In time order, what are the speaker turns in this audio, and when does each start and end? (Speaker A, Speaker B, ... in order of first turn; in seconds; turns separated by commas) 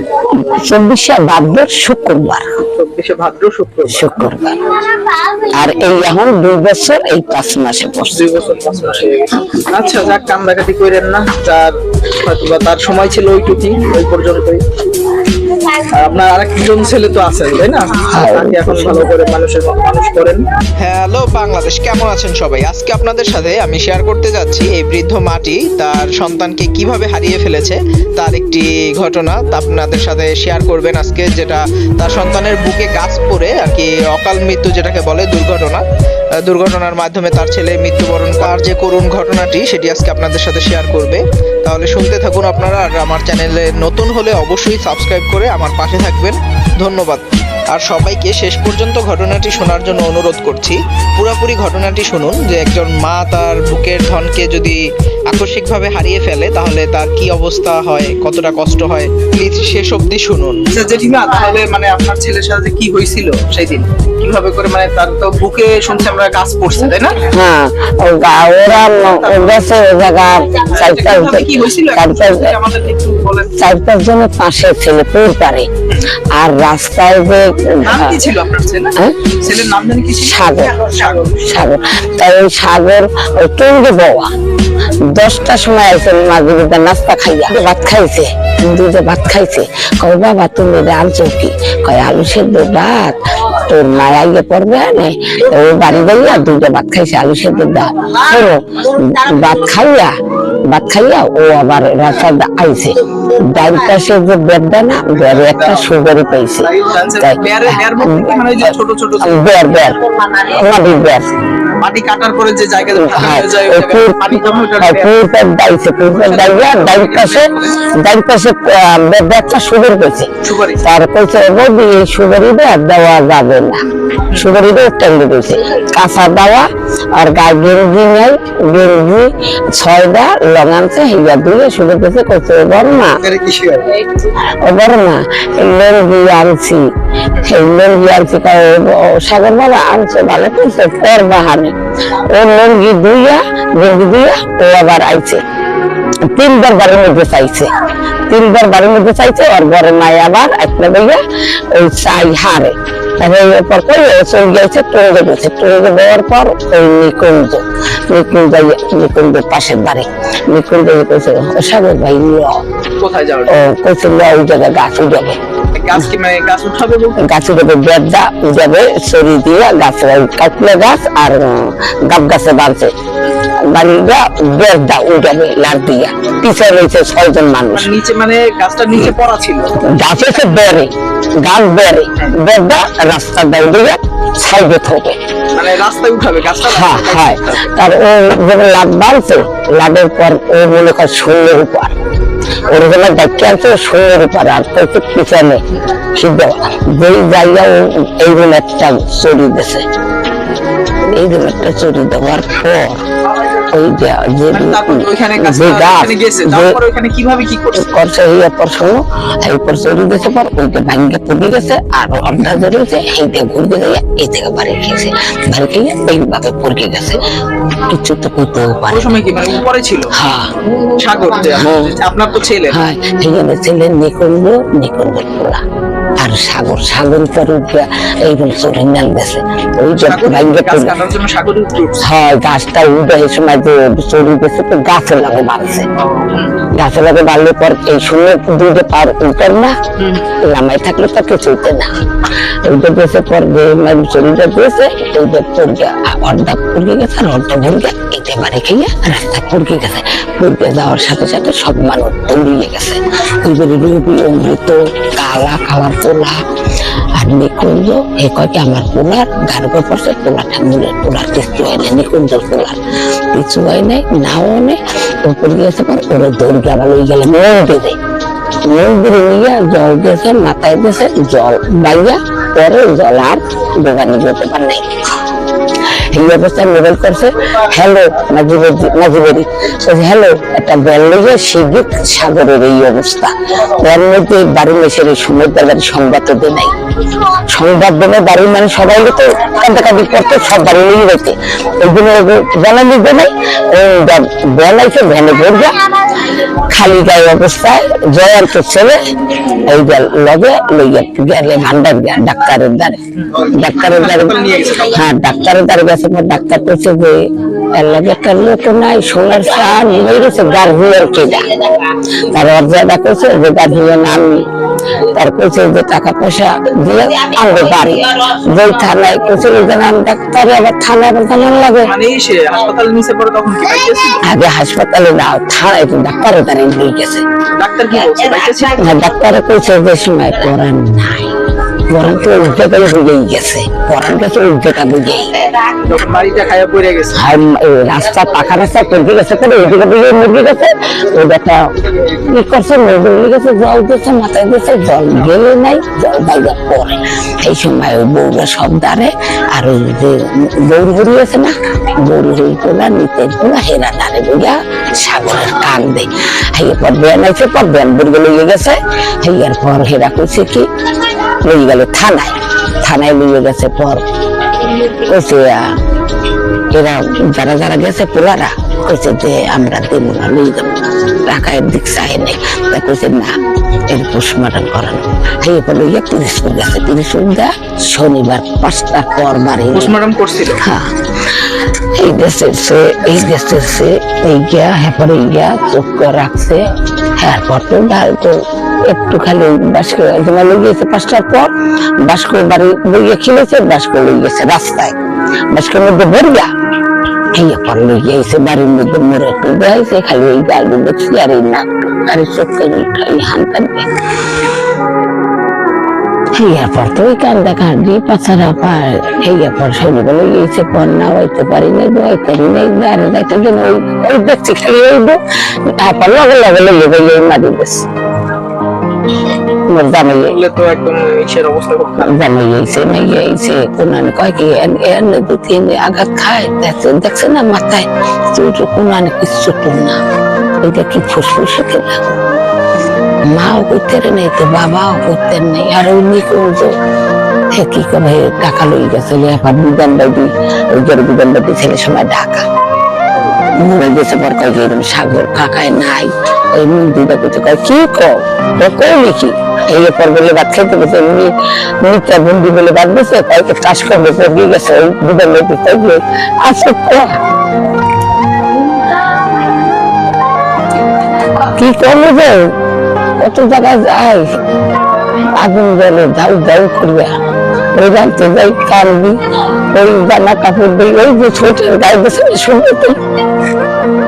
Speaker A: 0.3-2.5, Speaker B: 2.8-4.1, Speaker A: 3.9-4.6, Speaker A: 5.4-8.3, Speaker B: 8.1-14.6, Speaker B: 15.7-20.4, Speaker A: 18.1-19.1, Speaker C: 20.8-35.8, Speaker C: 36.4-60.7, Speaker B: 60.7-67.2, Speaker A: 67.2-72.5, Speaker B: 69.1-69.5, Speaker B: 70.6-73.5, Speaker A: 73.6-75.7, Speaker A: 76.3-78.2, Speaker B: 77.8-81.5, Speaker A: 80.2-84.3, Speaker A: 85.1-100.1, Speaker A: 100.6-111.3, Speaker B: 105.2-105.8, Speaker B: 106.6-109.5, Speaker B: 111.8-115.1, Speaker A: 112.9-120.3, Speaker B: 116.1-117.8, Speaker B: 120.4-120.8, Speaker A: 120.8-133.2, Speaker B: 133.3-133.9, Speaker A: 134.4-136.9, Speaker A: 137.4-145.4, Speaker A: 146.3-147.7, Speaker A: 148.3-162.6, Speaker B: 163.0-163.6, Speaker A: 163.5-165.4, Speaker B: 165.7-167.2, Speaker A: 167.2-172.9, Speaker A: 173.7-177.9, Speaker B: 177.7-179.7, Speaker A: 179.8-185.2, Speaker B: 185.5-187.8, Speaker A: 186.7-191.9, Speaker A: 192.6-195.6, Speaker A: 196.2-199.8, Speaker A: 201.1-203.0, Speaker A: 203.7-206.8, Speaker B: 204.5-208.0, Speaker A: 207.8-217.2, Speaker A: 217.9-219.2, Speaker B: 218.9-220.1, Speaker A: 220.1-220.5, Speaker B: 220.8-222.8, Speaker A: 221.6-222.0, Speaker A: 222.7-225.6, Speaker A: 226.2-230.9, Speaker B: 229.9-232.1, Speaker A: 232.0-235.9, Speaker B: 236.2-236.6, Speaker A: 236.7-239.7, Speaker B: 240.0-240.3, Speaker A: 240.4-241.9, Speaker A: 242.6-256.4, Speaker A: 257.1-262.8, Speaker A: 263.3-268.0, Speaker A: 268.6-274.9, Speaker A: 275.9-286.7, Speaker A: 287.2-295.9, Speaker A: 296.5-314.5, Speaker B: 303.2-304.9, Speaker A: 315.0-321.9, Speaker B: 321.8-324.2, Speaker A: 324.2-327.2, Speaker B: 327.6-328.9, Speaker A: 328.7-335.5, Speaker B: 335.6-337.3, Speaker A: 337.1-360.7, Speaker A: 361.4-364.0, Speaker A: 364.8-365.7, Speaker A: 366.7-379.9, Speaker B: 379.7-380.6, Speaker A: 380.6-386.6, Speaker A: 387.2-394.9, Speaker A: 395.5-396.5, Speaker A: 397.3-403.9, Speaker A: 406.4-417.8, Speaker A: 419.7-420.4, Speaker B: 420.2-422.2, Speaker A: 422.0-430.0, Speaker A: 430.6-432.1, Speaker A: 433.2-436.7, Speaker A: 437.5-442.4, Speaker A: 443.6-457.1, Speaker A: 461.4-462.5, Speaker A: 463.2-464.4, Speaker A: 465.1-467.1, Speaker A: 467.8-469.2, Speaker A: 469.7-473.0